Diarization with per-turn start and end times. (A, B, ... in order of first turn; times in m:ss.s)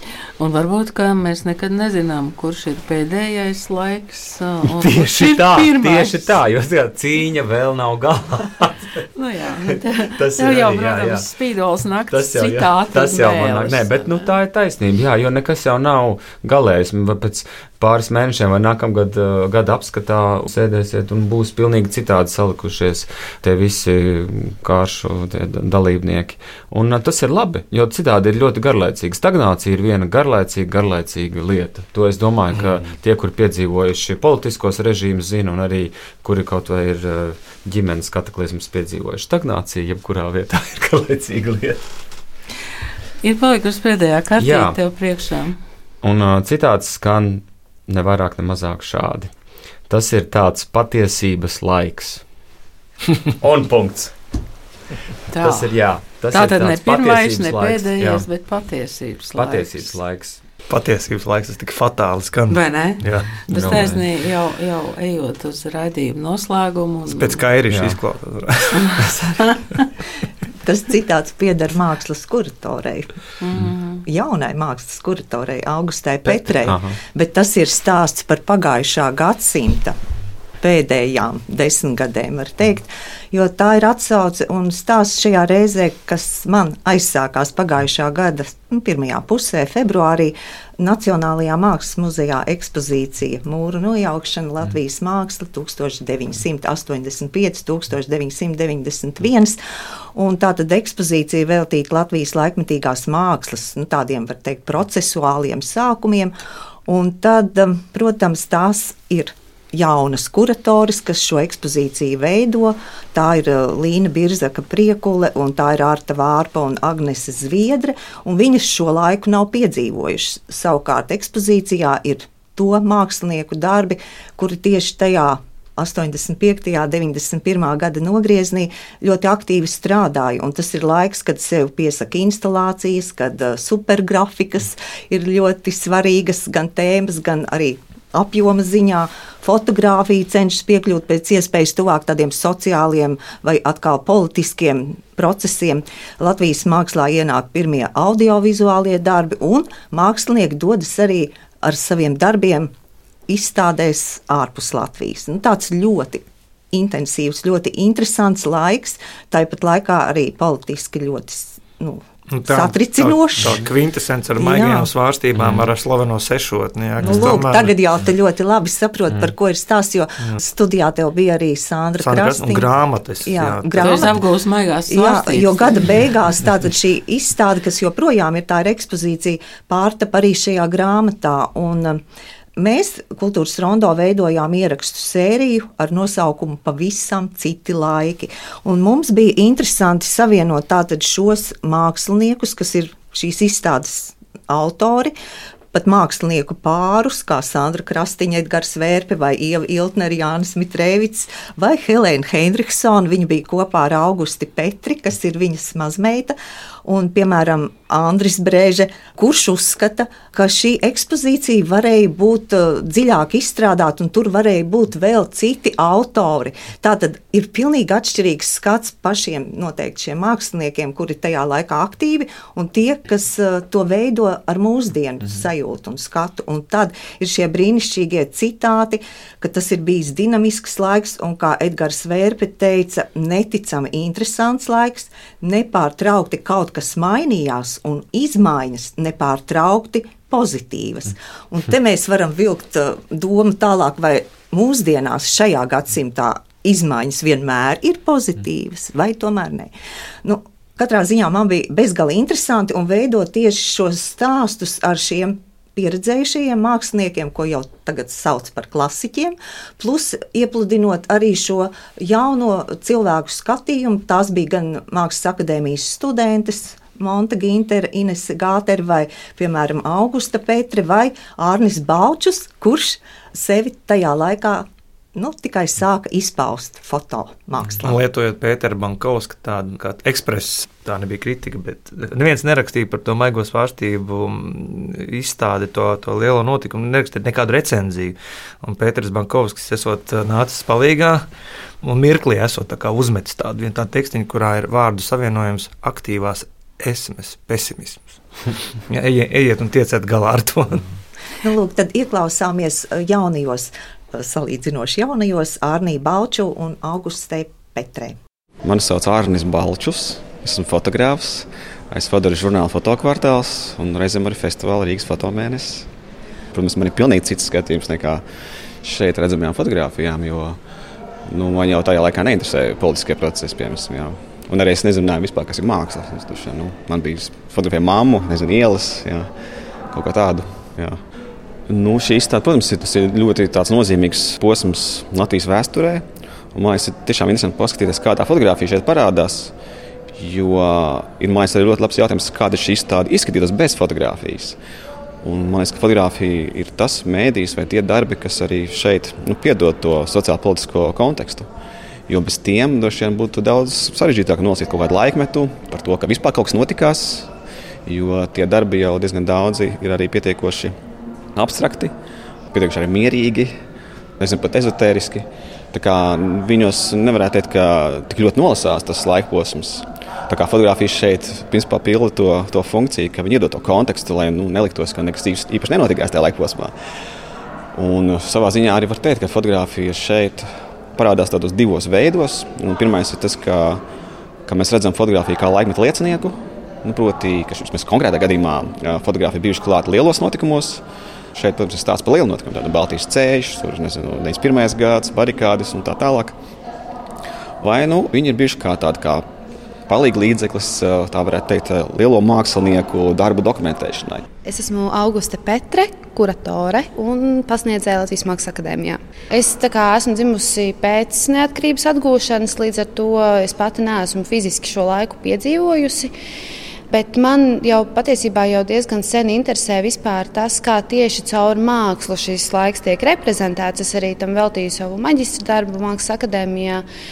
0:00.4-0:06.3 A
0:04.8-0:09.0 B
0:09.2-0:14.3 A
0:10.0-0:11.2 B
0:12.1-0:41.8 B
0:32.5-0:33.0 C
0:43.2-0:45.6 A
0:44.4-0:44.8 B
0:46.0-0:49.3 B
0:49.9-0:52.2 B
0:53.4-0:54.1 B
0:55.3-0:55.7 A
0:55.4-0:58.3 B
0:56.3-1:00.0 A
0:59.3-1:00.4 B
1:00.7-1:03.4 C
1:02.5-1:07.4 A
1:03.5-1:04.0 B
1:07.0-1:09.1 C
1:07.7-1:08.0 B
1:10.6-1:13.1 D
1:13.4-1:14.0 A
1:14.0-1:19.9 D
1:16.2-1:16.6 C
1:16.6-1:17.0 B
1:20.6-1:39.6 D
1:40.1-1:46.3 D
1:46.9-2:32.7 D
2:33.3-2:43.6 D
2:42.3-2:48.1 C
2:43.4-2:43.6 B
2:44.4-2:44.9 D
2:45.4-2:45.6 B
2:47.0-2:54.2 D
2:52.0-2:54.1 C
2:53.8-2:55.9 A
2:54.9-3:02.0 D
3:02.6-3:15.1 D
3:15.7-4:09.7 D
4:10.2-4:34.6 D
4:35.2-4:38.0 D
4:37.7-4:51.3 C
4:51.8-4:58.2 C
4:58.9-5:00.8 C
5:01.4-5:08.2 D
5:08.6-5:15.9 E
5:16.5-5:18.2 E
5:18.8-5:20.6 E
5:21.2-5:29.3 E
5:29.9-5:31.0 E
5:31.7-5:39.5 E
5:40.1-5:44.6 E
5:45.2-5:51.5 E
5:52.1-5:57.3 E
5:57.8-6:00.8 E
6:01.3-6:01.9 E
6:02.5-6:03.6 E
6:04.2-6:16.7 E
6:17.7-6:23.8 E
6:24.4-6:30.8 E
6:31.3-6:36.4 E
6:37.6-6:39.2 E
6:39.9-6:44.2 E
6:44.4-6:56.1 F
6:56.9-7:06.8 F